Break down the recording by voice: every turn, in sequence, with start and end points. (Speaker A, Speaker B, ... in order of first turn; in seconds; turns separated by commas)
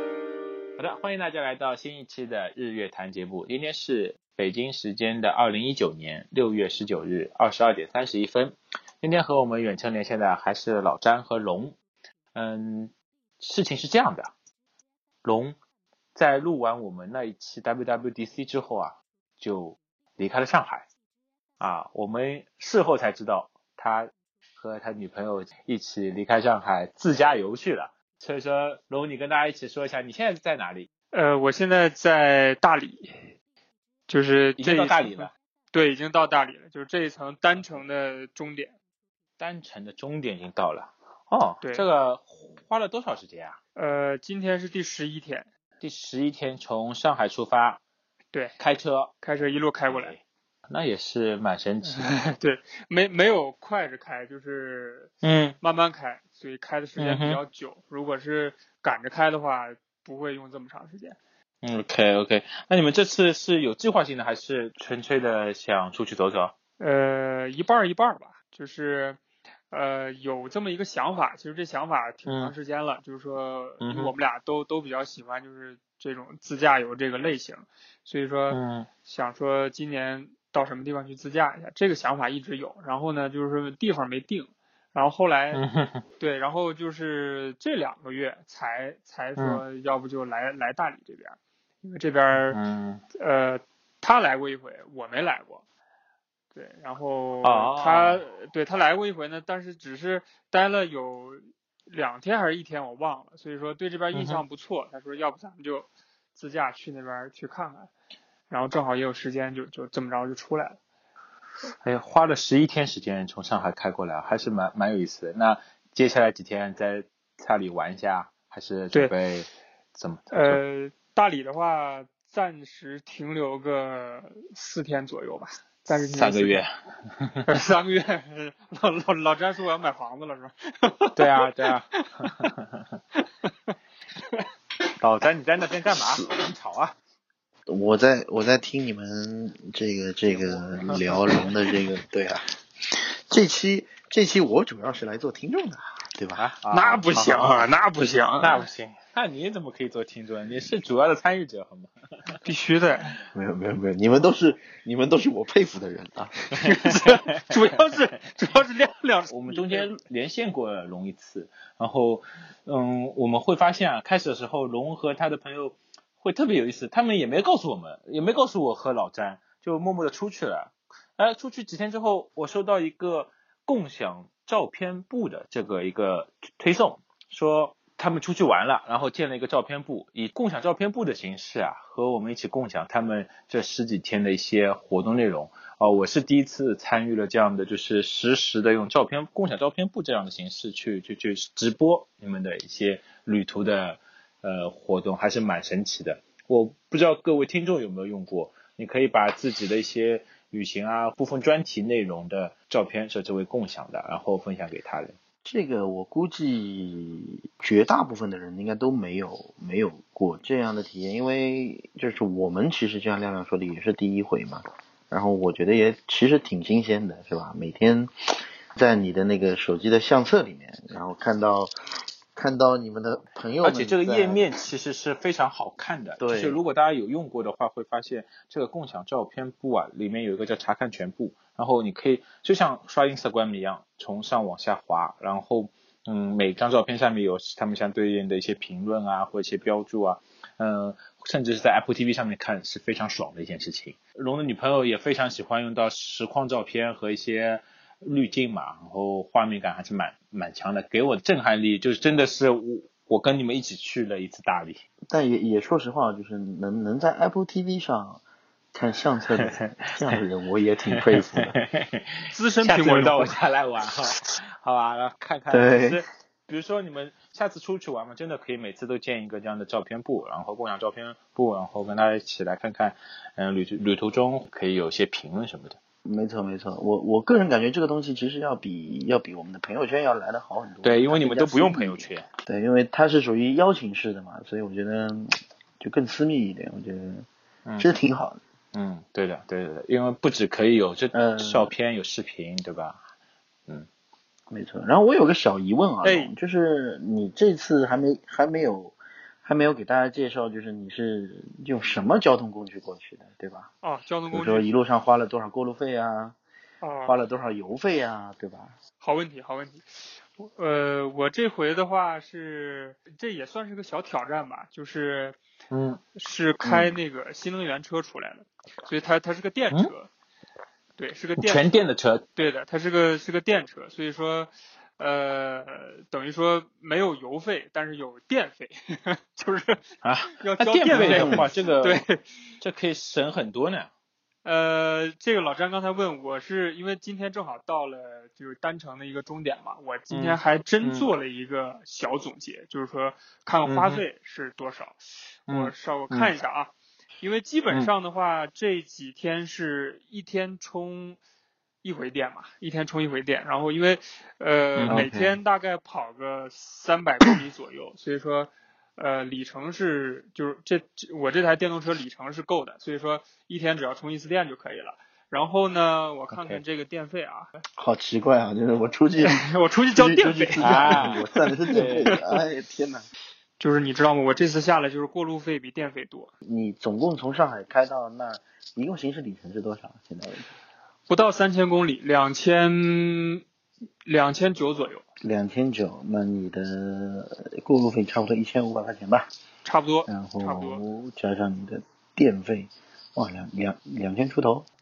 Speaker A: 0.8-11.7, Speaker A: 12.3-14.3, Speaker A: 15.2-15.6, Speaker A: 16.1-20.9, Speaker A: 21.6-30.9, Speaker B: 31.1-33.3, Speaker B: 34.1-38.7, Speaker A: 34.6-35.3, Speaker A: 39.4-43.6, Speaker B: 41.6-41.9, Speaker B: 43.8-45.5, Speaker A: 45.8-47.8, Speaker A: 48.6-49.1, Speaker B: 49.2-50.1, Speaker A: 49.9-52.1, Speaker B: 51.8-61.2, Speaker A: 55.2-55.6, Speaker A: 57.0-57.4, Speaker A: 61.6-66.5, Speaker B: 66.8-69.2, Speaker B: 69.7-85.6, Speaker A: 72.3-72.5, Speaker A: 73.8-74.1, Speaker A: 78.5-78.9, Speaker A: 85.5-86.0, Speaker B: 86.2-92.6, Speaker A: 89.4-89.6, Speaker A: 92.5-93.0, Speaker B: 93.2-95.6, Speaker B: 96.5-107.9, Speaker A: 97.4-98.2, Speaker A: 104.1-104.4, Speaker B: 108.5-110.8, Speaker A: 111.8-120.6, Speaker B: 120.3-126.6, Speaker A: 126.0-127.5, Speaker B: 127.5-132.5, Speaker A: 131.2-132.8, Speaker B: 133.2-133.8, Speaker A: 135.0-136.9, Speaker C: 137.7-146.4, Speaker A: 140.3-141.8, Speaker A: 146.4-147.7, Speaker B: 146.7-148.7, Speaker A: 148.4-152.3, Speaker B: 152.4-153.2, Speaker C: 153.3-156.3, Speaker B: 156.5-160.0, Speaker A: 156.8-157.9, Speaker A: 159.3-205.2, Speaker C: 205.4-218.1, Speaker C: 218.7-221.7, Speaker C: 222.3-224.4, Speaker A: 223.6-254.8, Speaker C: 226.2-226.6, Speaker C: 255.1-261.6, Speaker A: 259.4-260.2, Speaker A: 260.9-275.8, Speaker B: 262.3-263.4, Speaker C: 265.5-266.0, Speaker C: 276.0-287.3, Speaker A: 280.8-282.3, Speaker C: 287.8-288.4, Speaker A: 288.7-293.0, Speaker C: 291.1-291.7, Speaker C: 294.5-303.7, Speaker B: 296.0-296.3, Speaker B: 303.8-304.7, Speaker C: 304.3-306.4, Speaker B: 306.8-307.1, Speaker C: 307.0-308.8, Speaker B: 309.0-315.4, Speaker A: 315.7-316.0, Speaker B: 316.1-320.1, Speaker B: 321.0-321.7, Speaker A: 321.4-322.3, Speaker B: 322.4-329.9, Speaker A: 330.0-332.0, Speaker B: 330.4-332.2, Speaker C: 330.9-331.5, Speaker A: 332.6-333.9, Speaker B: 334.4-351.2, Speaker A: 340.1-341.1, Speaker A: 343.6-344.0, Speaker A: 345.5-346.3, Speaker B: 351.8-367.5, Speaker A: 354.8-355.1, Speaker C: 354.9-355.4, Speaker A: 366.3-366.6, Speaker C: 367.8-373.1, Speaker B: 369.2-372.1, Speaker A: 370.6-372.1, Speaker B: 373.6-376.3, Speaker C: 376.4-380.5, Speaker B: 381.1-383.4, Speaker B: 384.0-385.0, Speaker C: 385.2-389.3, Speaker B: 389.6-390.8, Speaker C: 390.1-394.7